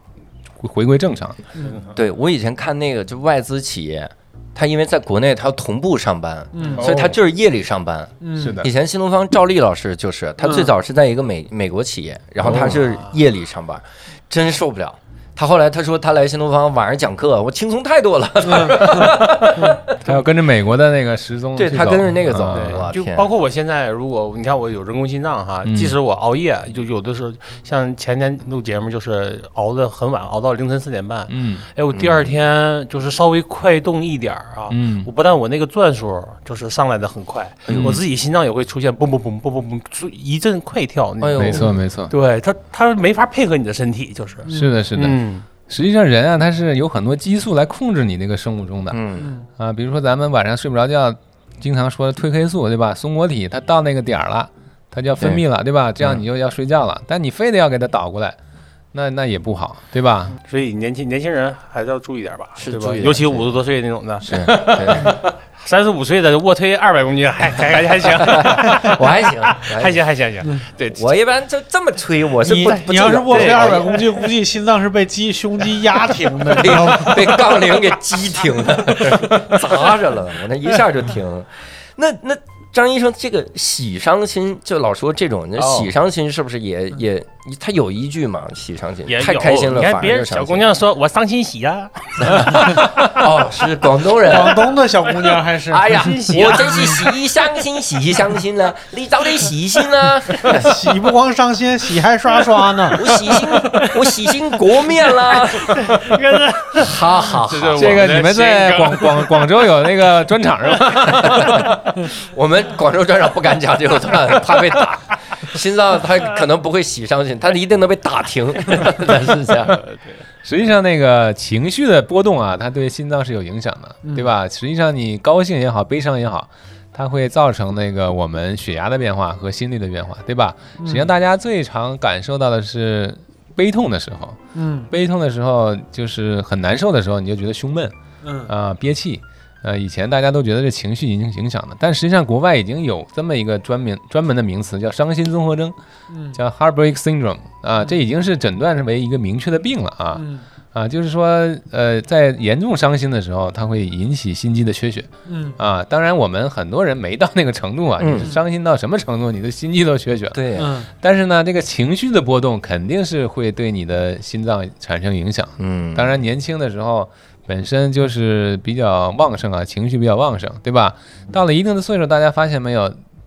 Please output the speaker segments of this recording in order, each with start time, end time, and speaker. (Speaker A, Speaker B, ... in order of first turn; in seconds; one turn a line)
Speaker A: 0.6-1.4
Speaker B: 1.6-1.9
Speaker C: 1.9-19.8
Speaker D: 6.5-6.8
Speaker A: 6.8-7.1
Speaker D: 8.2-8.6
Speaker A: 8.3-8.7
Speaker D: 10.4-10.7
Speaker A: 12.4-12.8
Speaker D: 18.4-19.0
Speaker A: 19.9-22.9
Speaker C: 21.6-23.3
Speaker B: 22.5-45.4
Speaker A: 25.6-25.9
Speaker A: 31.3-31.6
Speaker C: 31.9-32.3
Speaker A: 34.7-35.1
Speaker C: 37.7-38.0
Speaker A: 37.7-38.0
Speaker C: 41.2-41.7
Speaker A: 41.3-42.1
Speaker D: 44.5-44.7
Speaker A: 44.5-49.0
Speaker C: 48.9-49.3
Speaker A: 49.6-58.4
Speaker A: 58.9-60.3
Speaker B: 60.4-71.1
Speaker C: 62.6-63.5
Speaker C: 64.2-65.2
Speaker A: 64.3-65.1
Speaker C: 68.2-70.0
Speaker C: 70.9-74.1
Speaker D: 72.4-77.8
Speaker B: 73.2-73.9
Speaker C: 76.5-90.6
Speaker B: 89.0-92.9
Speaker C: 92.2-94.8
Speaker D: 94.2-97.1
Speaker C: 95.7-100.8
Speaker B: 95.8-97.1
Speaker D: 100.5-103.1
Speaker C: 102.9-106.0
Speaker B: 103.7-104.0
Speaker B: 105.2-109.5
Speaker C: 106.7-108.1
Speaker A: 107.8-111.8
Speaker C: 111.2-119.8
Speaker A: 120.4-137.9
Speaker D: 130.8-131.1
Speaker D: 134.5-134.9
Speaker D: 138.2-138.5
Speaker A: 138.4-145.7
Speaker D: 146.1-146.4
Speaker A: 146.3-173.0
Speaker D: 150.1-150.4
Speaker D: 155.3-155.6
Speaker C: 158.0-158.3
Speaker C: 160.3-160.8
Speaker D: 160.6-160.9
Speaker C: 165.6-166.1